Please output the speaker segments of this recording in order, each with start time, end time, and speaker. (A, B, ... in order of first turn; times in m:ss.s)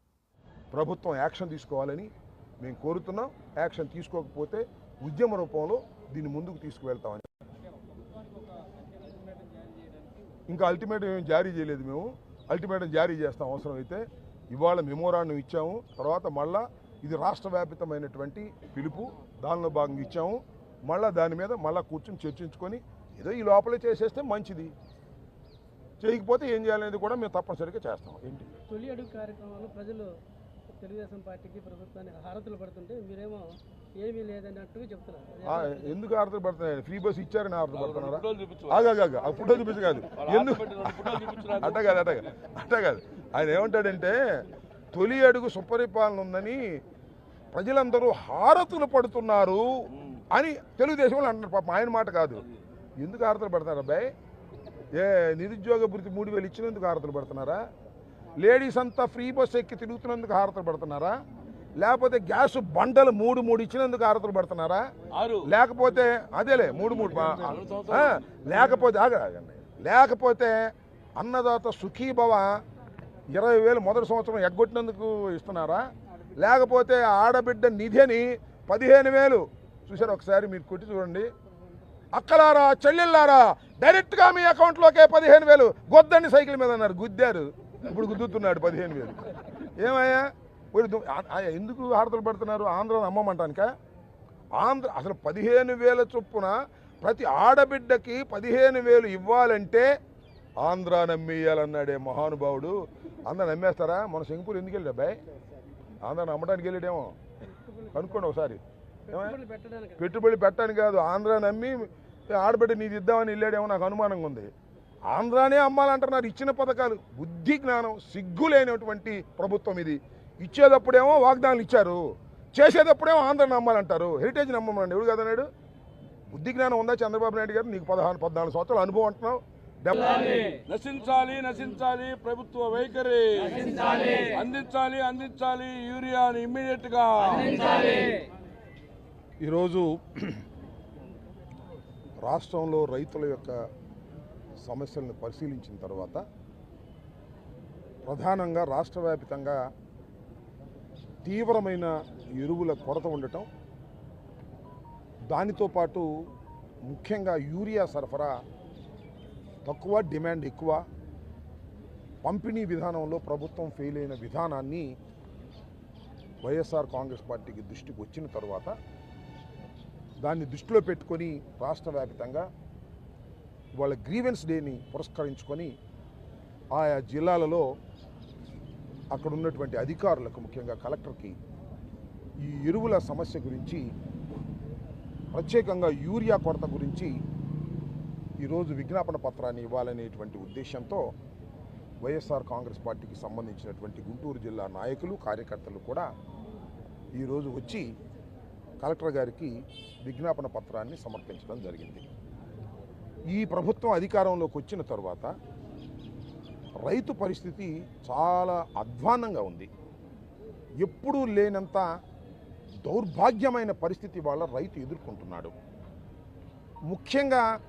0:00.7-0:02.1 A
0:02.6-0:07.3 A
0:10.5-0:24.7 A
0:26.0-0:28.5 A
0:28.7-0:30.1 B
0:30.8-0:36.0 B
0:35.4-0:44.2 A
0:37.8-0:38.9 C
0:40.1-0:42.1 C
0:44.9-0:46.8 A
0:47.5-0:52.4 A
0:50.0-0:50.2 C
0:53.0-0:54.1 A
0:55.0-0:57.6 A
0:58.4-1:01.2 A
1:01.8-1:04.8 A
1:05.1-1:05.5 C
1:05.4-1:12.5 A
1:06.9-1:08.4 C
1:13.3-1:15.8 A
1:16.4-1:21.3 A
1:22.1-1:33.7 A
1:34.6-1:39.9 A
1:40.6-1:42.7 A
1:43.3-1:45.2 A
1:46.0-1:47.2 A
1:47.6-1:48.3 B
1:47.9-1:49.4 A
1:49.1-1:50.0 B
1:50.0-1:54.5 A
1:55.1-2:02.0 A
2:02.6-2:05.5 A
2:06.3-2:10.4 A
2:10.7-2:18.1 C
2:19.4-2:20.4 A
2:22.2-2:23.6 A
2:24.6-2:26.2 A
2:28.1-2:29.6 A
2:31.2-2:33.5 A
2:35.3-2:36.1 A
2:36.9-2:38.4 A
2:39.6-2:40.8 A
2:42.2-2:44.9 A
2:46.4-2:48.7 A
2:50.2-2:52.5 A
2:53.8-2:55.7 A
2:56.7-2:57.7 A
2:59.1-3:01.4 A
3:02.4-3:03.9 A
3:05.3-3:07.2 A
3:08.4-3:11.1 A
3:12.0-3:16.1 A
3:17.2-3:17.9 A
3:18.8-3:22.0 A
3:23.3-3:25.3 A
3:26.8-3:29.7 A
3:30.8-3:31.9 A
3:32.8-3:35.5 A
3:36.9-3:37.5 A